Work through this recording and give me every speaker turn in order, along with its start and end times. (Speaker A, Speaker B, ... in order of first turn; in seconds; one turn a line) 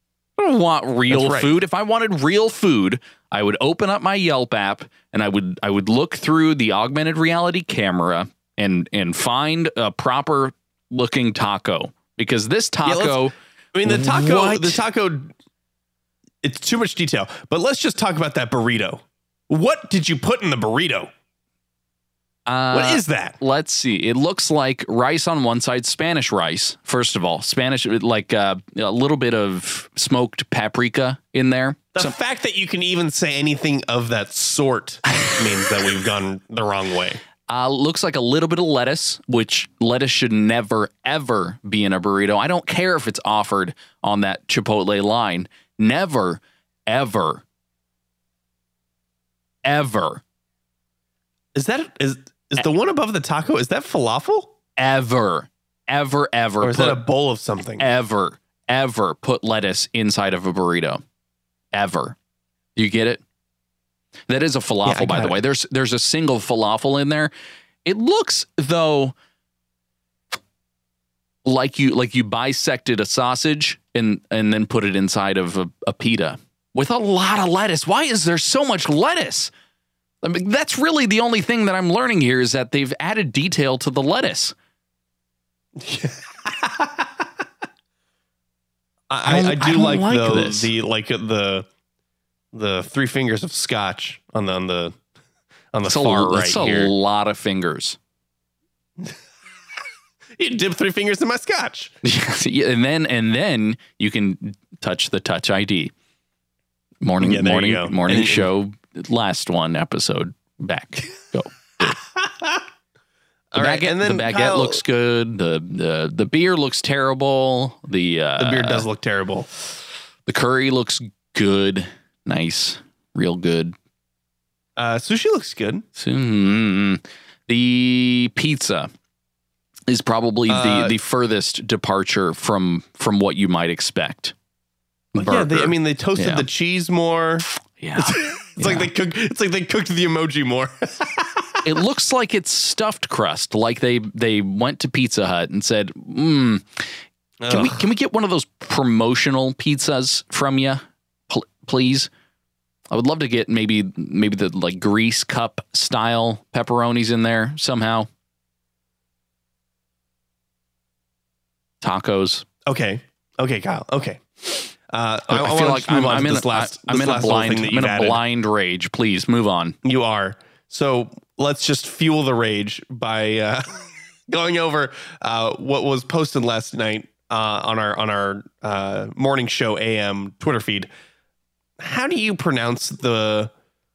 Speaker A: 0.4-14.8
Speaker B: 1.1-1.6
Speaker B: 12.8-15.3
Speaker B: 16.4-21.1
Speaker A: 22.5-32.1
Speaker B: 22.7-23.4
Speaker B: 31.9-37.2
Speaker A: 37.5-47.4
Speaker A: 49.6-50.2
Speaker B: 51.5-54.5
Speaker A: 54.8-57.0
Speaker B: 56.6-57.9
Speaker A: 57.8-61.0
Speaker A: 61.7-62.1
Speaker A: 62.8-63.2
Speaker A: 64.3-67.3
Speaker B: 64.8-65.4
Speaker A: 67.8-69.1
Speaker A: 71.4-79.5
Speaker A: 80.2-84.5
Speaker B: 85.8-87.1
Speaker B: 89.1-91.7
Speaker A: 89.2-90.7
Speaker B: 92.5-95.0
Speaker B: 95.7-96.9
Speaker A: 95.9-98.0
Speaker B: 100.4-101.9
Speaker A: 102.0-105.9
Speaker A: 107.0-112.0
Speaker B: 107.2-108.5
Speaker B: 111.8-112.6
Speaker B: 113.5-114.8
Speaker A: 113.5-118.9
Speaker B: 118.4-119.5
Speaker A: 120.2-123.7
Speaker B: 124.8-125.8
Speaker A: 126.0-128.9
Speaker A: 129.9-134.3
Speaker B: 130.5-130.9
Speaker A: 135.1-136.4
Speaker B: 135.2-137.4
Speaker A: 137.8-138.9
Speaker B: 138.0-141.6
Speaker A: 141.6-146.9
Speaker B: 147.4-147.8
Speaker A: 147.5-152.1
Speaker A: 152.9-158.1
Speaker A: 161.8-162.4
Speaker B: 162.7-168.2
Speaker A: 165.3-169.8
Speaker B: 169.8-180.9
Speaker B: 181.8-183.5